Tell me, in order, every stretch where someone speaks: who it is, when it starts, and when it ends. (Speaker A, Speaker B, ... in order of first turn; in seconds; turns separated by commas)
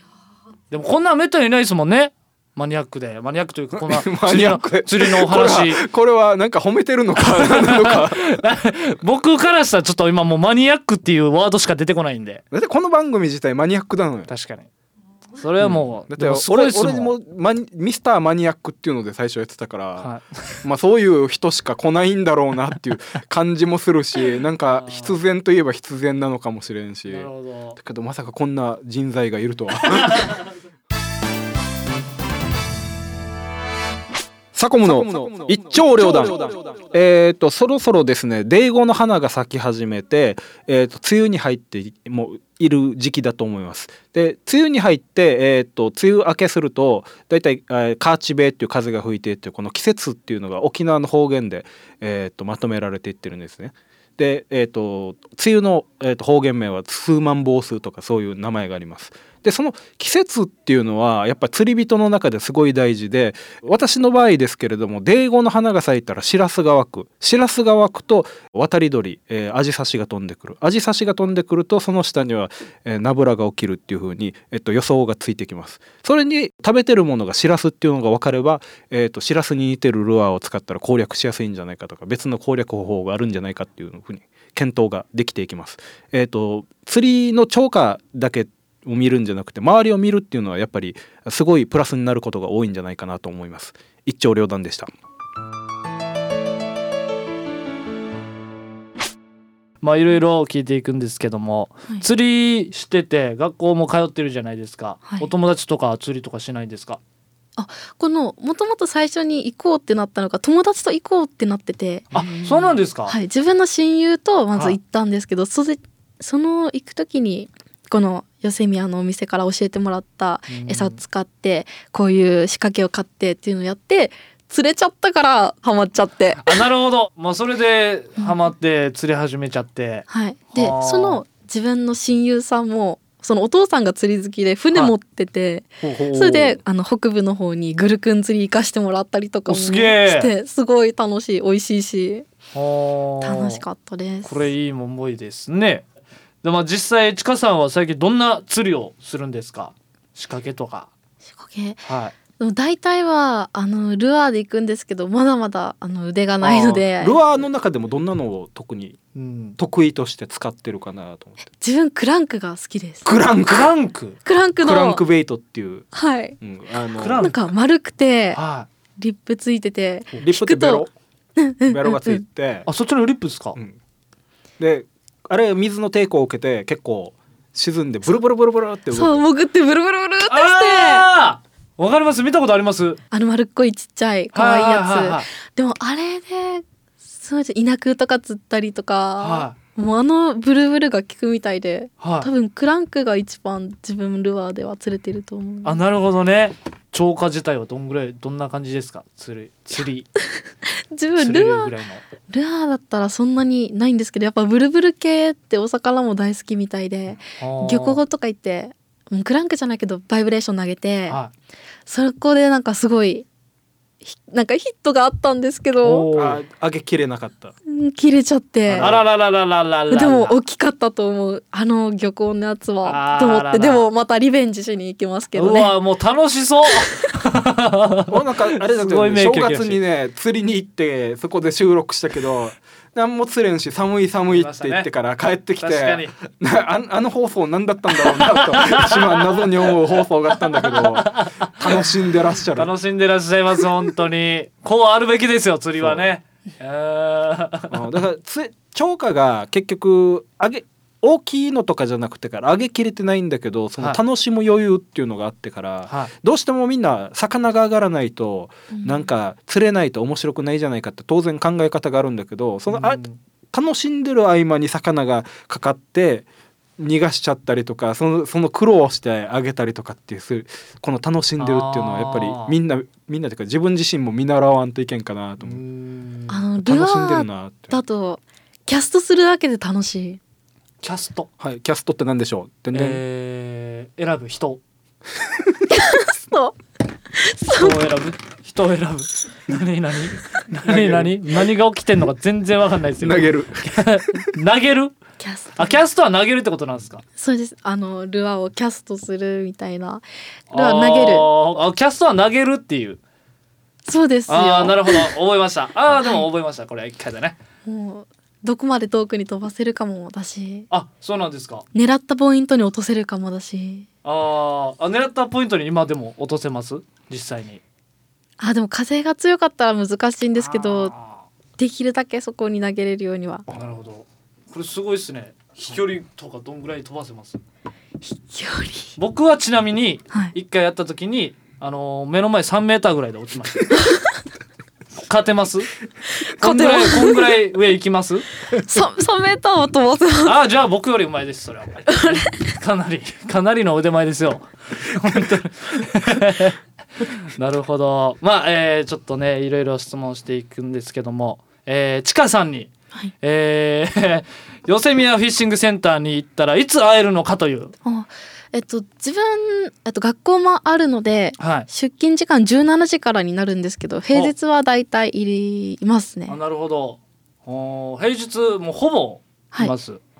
Speaker A: 0.7-5.8, Speaker B: 3.8-8.3, Speaker A: 7.2-12.4, Speaker B: 12.5-14.3, Speaker A: 14.3-14.7, Speaker A: 15.4-17.1, Speaker B: 15.6-20.1, Speaker A: 20.0-20.6, Speaker B: 20.6-30.4, Speaker A: 24.7-25.2, Speaker A: 27.1-27.8, Speaker A: 30.1-30.4, Speaker B: 34.5-94.9, Speaker A: 99.8-107.0, Speaker C: 105.0-105.3, Speaker C: 107.6-126.5, Speaker A: 112.1-113.2, Speaker A: 120.5-121.0, Speaker A: 126.4-131.2, Speaker C: 130.1-142.3, Speaker B: 135.8-136.6, Speaker A: 139.5-140.3, Speaker A: 142.5-143.6, Speaker C: 143.2-144.5, Speaker A: 144.2-145.8, Speaker A: 146.4-150.9, Speaker C: 151.3-151.8, Speaker A: 151.9-152.1, Speaker C: 152.4-157.2, Speaker B: 156.4-159.0, Speaker A: 159.1-159.6, Speaker B: 159.6-161.5, Speaker C: 161.6-163.1, Speaker B: 163.0-163.7, Speaker A: 163.5-164.2, Speaker C: 164.2-165.0, Speaker B: 164.6-165.9, Speaker C: 165.9-166.4, Speaker B: 166.4-167.3, Speaker A: 167.0-167.4, Speaker C: 167.1-168.4, Speaker A: 168.3-168.7, Speaker C: 169.0-172.2, Speaker B: 170.2-170.9, Speaker B: 171.7-172.7, Speaker A: 172.7-173.6, Speaker B: 174.6-179.2, Speaker C: 178.9-181.1, Speaker A: 180.2-183.0, Speaker C: 183.1-195.8, Speaker A: 184.3-185.3, Speaker A: 189.2-189.5, Speaker A: 192.0-192.3, Speaker A: 195.6-200.1, Speaker C: 200.9-201.7, Speaker A: 201.2-202.0, Speaker C: 202.3-211.2, Speaker A: 207.4-208.0, Speaker C: 211.8-213.3, Speaker C: 214.0-216.1, Speaker A: 215.8-216.4, Speaker B: 216.1-217.5, Speaker C: 217.7-219.0, Speaker B: 218.7-219.0, Speaker A: 218.8-220.3, Speaker C: 219.9-225.8, Speaker A: 222.8-223.8, Speaker A: 225.3-229.8, Speaker B: 228.1-242.7, Speaker A: 234.3-234.9, Speaker A: 235.6-236.1, Speaker A: 238.0-239.1, Speaker A: 240.6-247.8, Speaker B: 245.8-246.1, Speaker B: 247.7-266.3, Speaker C: 258.7-259.1, Speaker A: 262.7-263.2, Speaker B: 266.8-275.6, Speaker A: 271.4-272.6, Speaker A: 275.4-276.4, Speaker C: 276.3-280.2, Speaker B: 276.6-277.8, Speaker A: 280.8-281.3, Speaker B: 281.4-283.0, Speaker A: 282.7-284.6, Speaker C: 285.7-286.5, Speaker C: 287.2-287.9, Speaker A: 287.5-294.9, Speaker B: 290.6-291.4, Speaker B: 293.0-294.3, Speaker C: 295.2-295.8, Speaker A: 295.5-297.0, Speaker C: 297.2-301.3, Speaker A: 300.5-303.0, Speaker C: 303.9-305.1, Speaker A: 304.3-307.4, Speaker C: 306.0-306.3, Speaker C: 307.6-310.7, Speaker A: 310.7-311.6, Speaker C: 311.7-313.9, Speaker A: 314.0-317.6, Speaker C: 318.4-320.9, Speaker A: 320.4-321.2, Speaker C: 321.6-323.5, Speaker A: 323.5-327.4, Speaker C: 328.0-328.9, Speaker A: 329.0-333.9, Speaker A: 335.0-335.7, Speaker A: 336.4-338.2, Speaker C: 336.4-337.3, Speaker C: 338.5-340.4, Speaker A: 340.2-352.7, Speaker C: 341.9-342.3, Speaker A: 353.2-357.7, Speaker C: 357.8-366.4, Speaker A: 361.4-361.7, Speaker A: 366.3-370.0